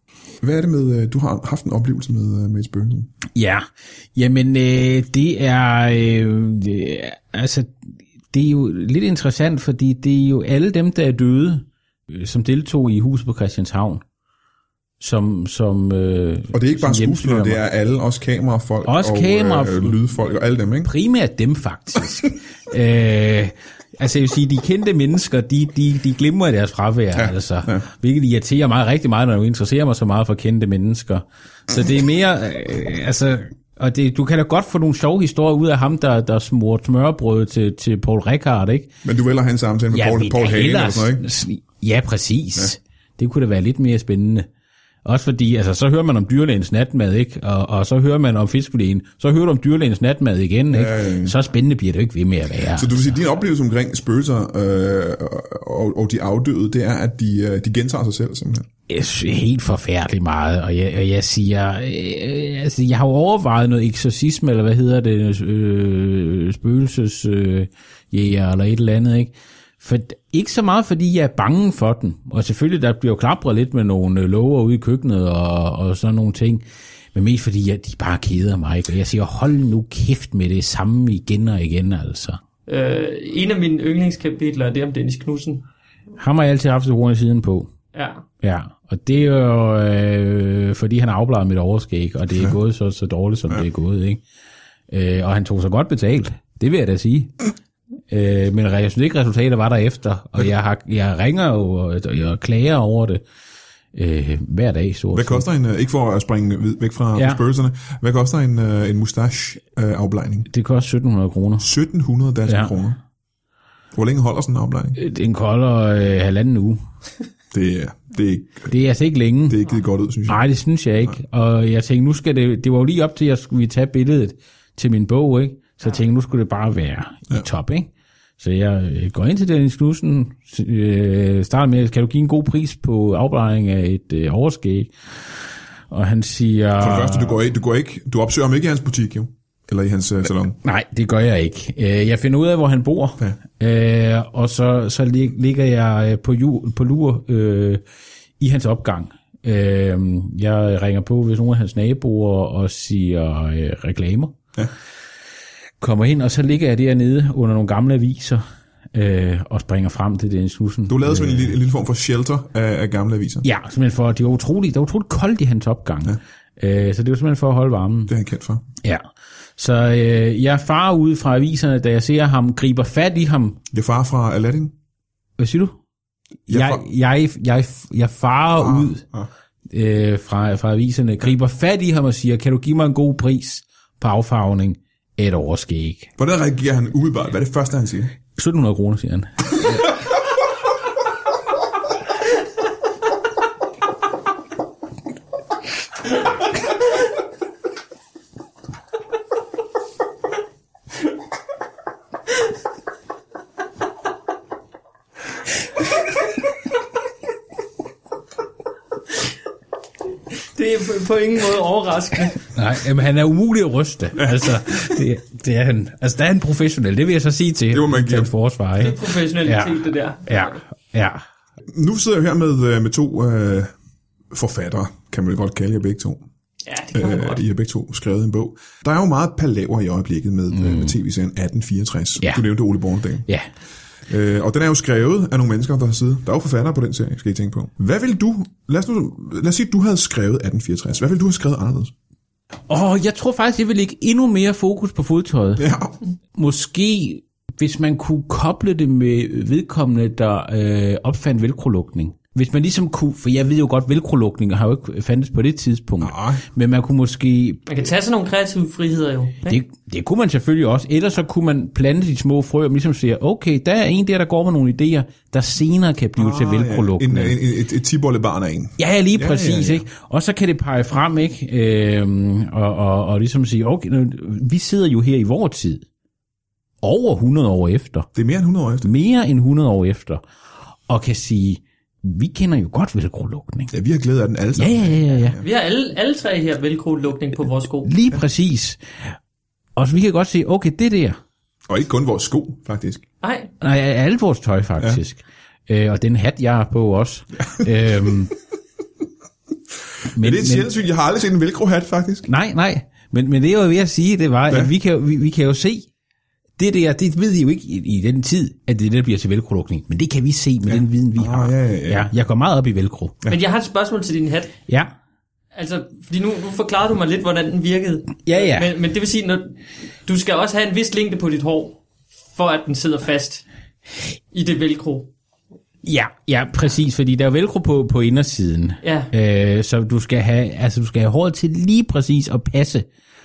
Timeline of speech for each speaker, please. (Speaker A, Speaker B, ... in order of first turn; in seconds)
Speaker A: 0.4-3.1, 16.5-20.9, 27.1-27.9, 39.0-41.2, 50.7-51.4, 52.7-58.7, 105.1-110.5, 111.6-113.0, 113.9-115.0, 117.5-118.7, 119.5-120.4, 136.8-140.6, 160.9-163.4, 168.1-168.6, 173.7-174.7, 176.5-176.8, 178.5-179.3, 186.2-188.1, 214.2-214.5, 217.7-218.3, 221.7-223.7, 224.3-226.2, 226.9-233.2, 234.1-241.9, 245.6-245.9, 256.0-256.4, 266.2-269.9, 278.1-278.9, 283.7-285.4, 291.7-293.0, 300.1-302.3, 310.6-312.1
Speaker B: 3.3-7.7, 8.3-14.0, 15.0-17.6, 18.9-20.0, 20.8-38.9, 39.9-44.5, 45.0-53.1, 58.9-82.4, 86.2-87.7, 88.4-94.2, 94.9-97.4, 98.1-103.2, 103.9-105.5, 107.2-107.4, 110.5-111.7, 112.5-112.7, 115.0-116.8, 118.7-119.6, 120.3-135.3, 135.9-137.4, 140.6-147.8, 148.4-154.4, 155.8-158.4, 158.9-161.5, 163.4-168.1, 169.6-173.6, 175.4-175.8, 176.5-179.0, 179.7-186.1, 188.3-189.9, 212.5-221.2, 230.5-230.9, 242.7-245.7, 246.3-257.6, 259.4-267.4, 268.8-275.8, 276.8-278.1, 278.8-280.2, 280.9-283.7, 284.6-285.4, 287.8-289.1, 289.8-291.2, 293.6-298.3, 300.1-300.7, 302.3-305.9, 306.6-313.2, 318.2-318.7, 325.8-332.9
Speaker C: 82.7-85.6, 87.9-88.2, 210.5-212.4, 218.8-220.6, 226.7-227.4, 257.7-259.6, 285.4-287.9, 293.2-293.5, 313.3-314.5, 315.5-321.8, 322.3-323.4, 324.3-325.1, 328.8-329.1